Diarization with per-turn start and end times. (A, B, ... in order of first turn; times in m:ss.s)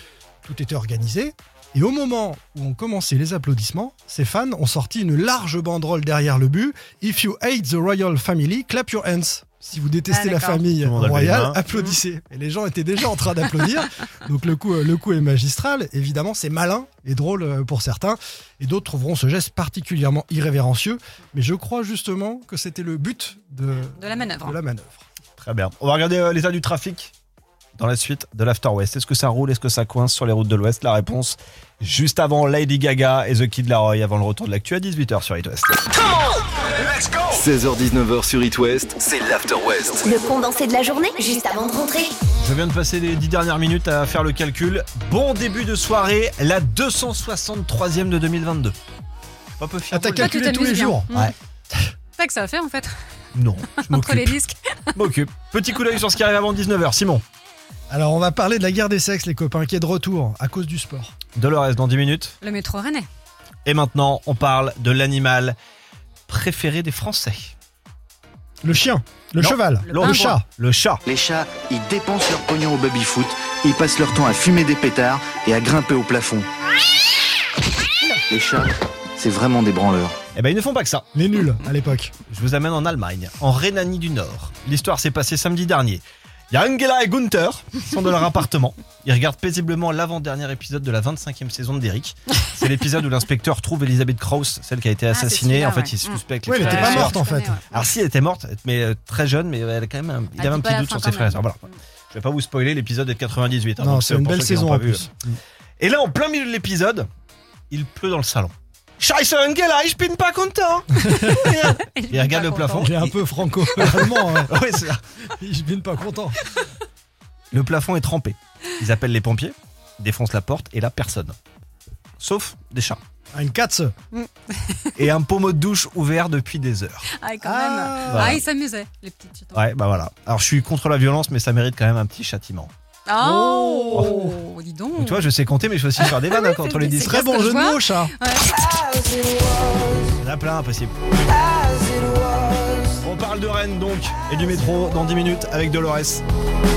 0:00.4-0:25.0 A
0:10.1-0:10.6 B
0:10.8-0:11.6 C
0:23.9-0:24.6 B
0:25.4-0:27.1 C
0:27.8-0:36.0 C
0:37.3-0:40.1 D
0:40.0-0:42.1 E
0:42.4-0:48.8 C
0:49.6-0:50.3 C
0:49.9-0:51.1 A
0:50.1-0:51.3 B
0:52.2-0:53.0 B
0:53.3-0:54.4 C
0:53.8-0:54.8 B
0:54.9-0:57.2 C
0:57.9-1:01.1 A
1:01.4-1:02.4 C
1:02.4-1:03.1 B
1:03.6-1:05.6 C
1:06.3-1:07.5 C
1:08.6-1:10.4 A
1:09.4-1:11.0 C
1:09.9-1:10.4 B
1:11.1-1:16.5 F
1:18.3-1:20.2 F
1:20.4-1:21.1 C
1:21.1-1:22.1 A
1:22.3-1:45.1 C
1:35.1-1:37.9 B
1:36.5-1:37.6 A
1:40.4-1:41.8 B
1:43.8-1:45.4 A
1:45.8-1:47.1 C
1:47.7-1:53.2 C
1:51.8-1:53.0 B
1:52.8-1:54.5 A
1:53.7-1:55.0 C
1:55.4-1:56.5 A
1:57.5-2:01.4 C
2:02.2-2:03.0 C
2:03.3-2:03.9 A
2:04.1-2:05.0 B
2:05.0-2:07.1 C
2:07.2-2:09.6 B
2:07.4-2:08.4 A
2:08.1-2:08.4 C
2:09.5-2:12.7 C
2:13.1-2:15.2 B
2:13.2-2:14.4 A
2:15.0-2:17.2 C
2:16.0-2:18.5 B
2:17.0-2:18.1 A
2:20.2-2:21.4 C
2:23.0-2:26.2 C